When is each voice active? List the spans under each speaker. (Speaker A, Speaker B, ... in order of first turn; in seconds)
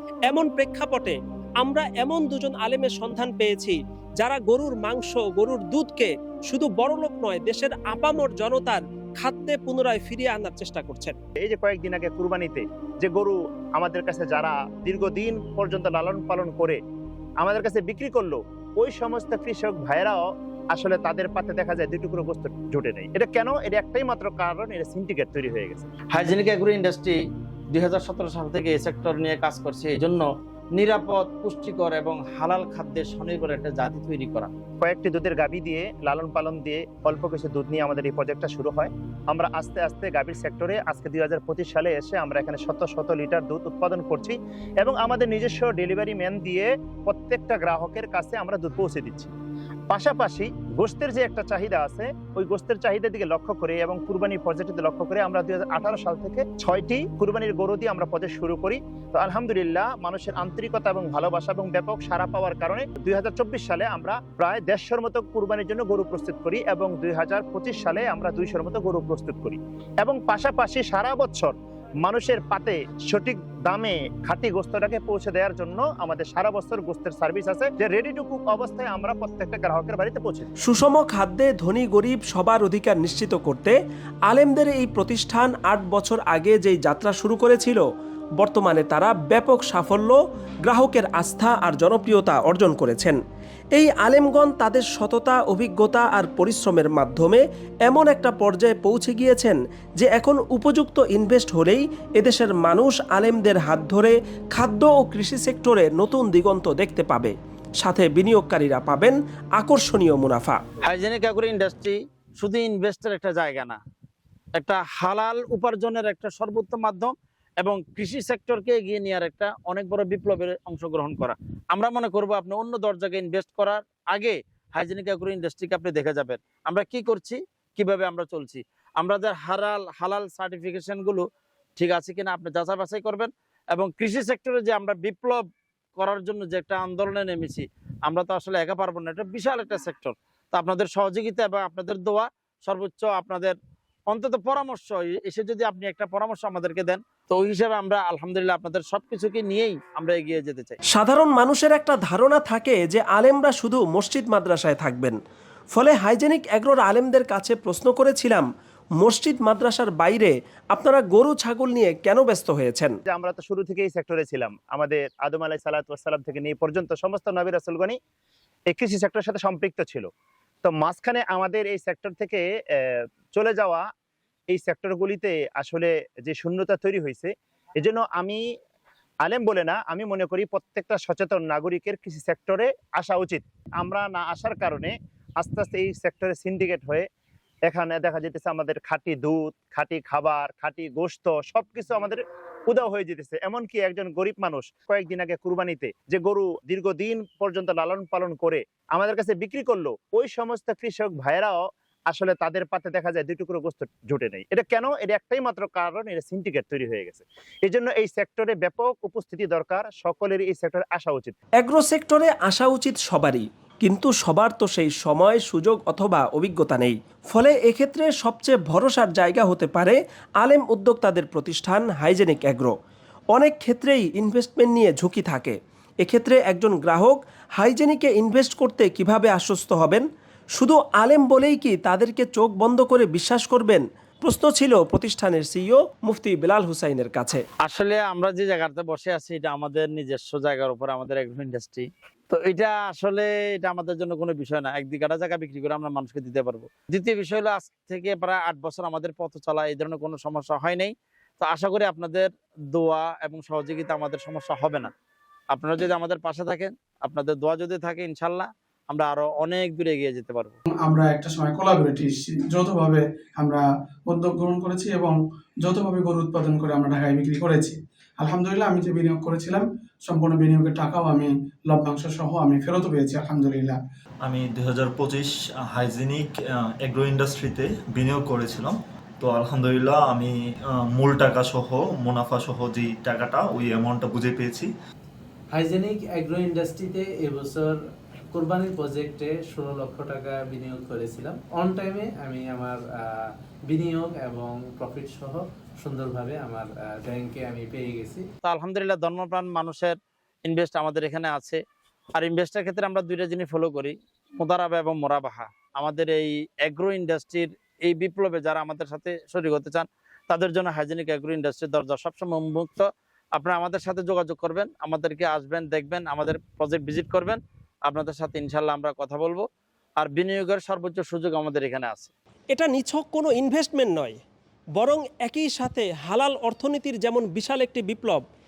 Speaker A: 0.3-11.1, 80.6-87.8, 88.4-93.2, 93.7-110.6, 150.9-155.2, 155.7-158.4, 159.0-162.9, 211.6-222.7, 223.3-230.0, 230.6-237.4, 322.5-324.2, 324.8-328.2
Speaker B: 11.4-16.8, 17.4-25.9, 34.8-49.3, 49.9-80.5, 163.1-168.0, 168.7-170.1, 170.6-173.8, 174.5-178.4, 179.2-187.0, 187.7-211.4
Speaker C: 26.1-27.2, 27.7-30.2, 30.8-34.5, 110.8-113.8, 114.6-131.2, 131.8-135.4, 136.0-143.6, 144.1-150.8, 237.6-254.9, 255.5-260.5, 298.4-301.6, 302.1-319.4, 320.0-322.1
Speaker D: 260.8-273.8
Speaker E: 274.2-284.7
Speaker F: 285.5-287.8, 288.3-298.2